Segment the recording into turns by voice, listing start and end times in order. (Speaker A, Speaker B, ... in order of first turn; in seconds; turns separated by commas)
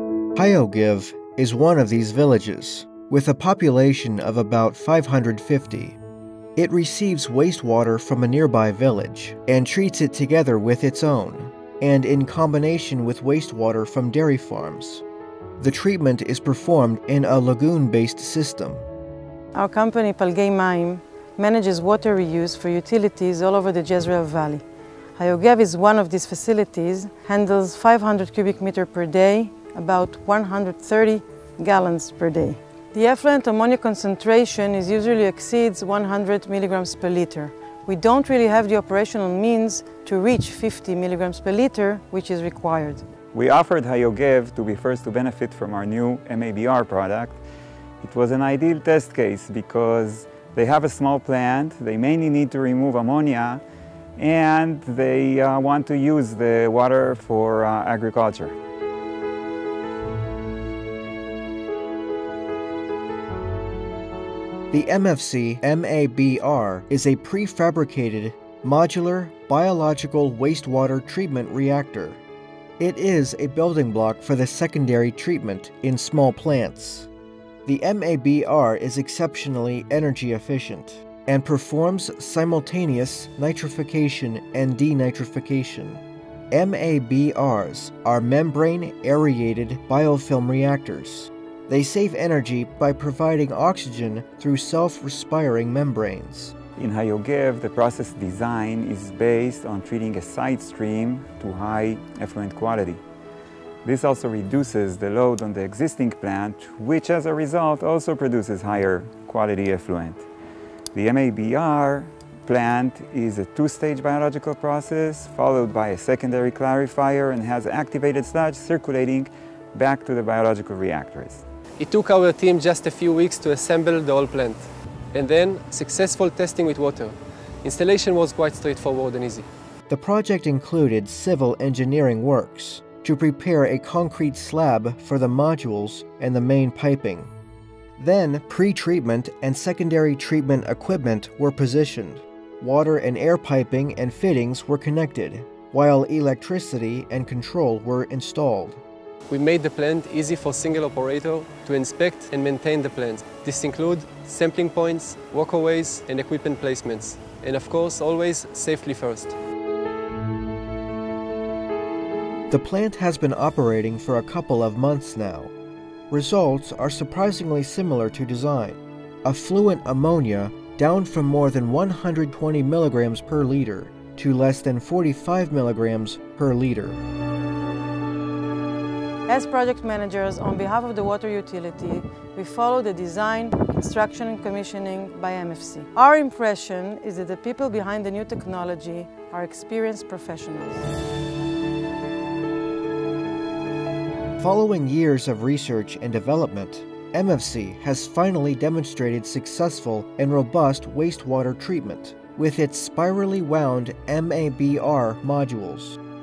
Speaker A: 0.3-6.0, Speaker A: 6.5-15.0, Speaker A: 15.6-18.9, Speaker B: 19.5-24.6, Speaker B: 25.1-43.0, Speaker C: 43.3-47.4, Speaker C: 48.0-53.6, Speaker C: 54.2-58.5, Speaker A: 64.7-72.2, Speaker A: 72.8-77.1, Speaker A: 77.7-96.5, Speaker C: 96.8-103.0, Speaker C: 103.8-110.2, Speaker C: 110.9-121.4, Speaker D: 121.8-129.5, Speaker A: 129.9-137.3, Speaker A: 138.0-148.8, Speaker D: 149.3-159.3, Speaker A: 162.5-165.5, Speaker A: 166.1-177.0, Speaker B: 179.3-190.9, Speaker A: 194.4-206.0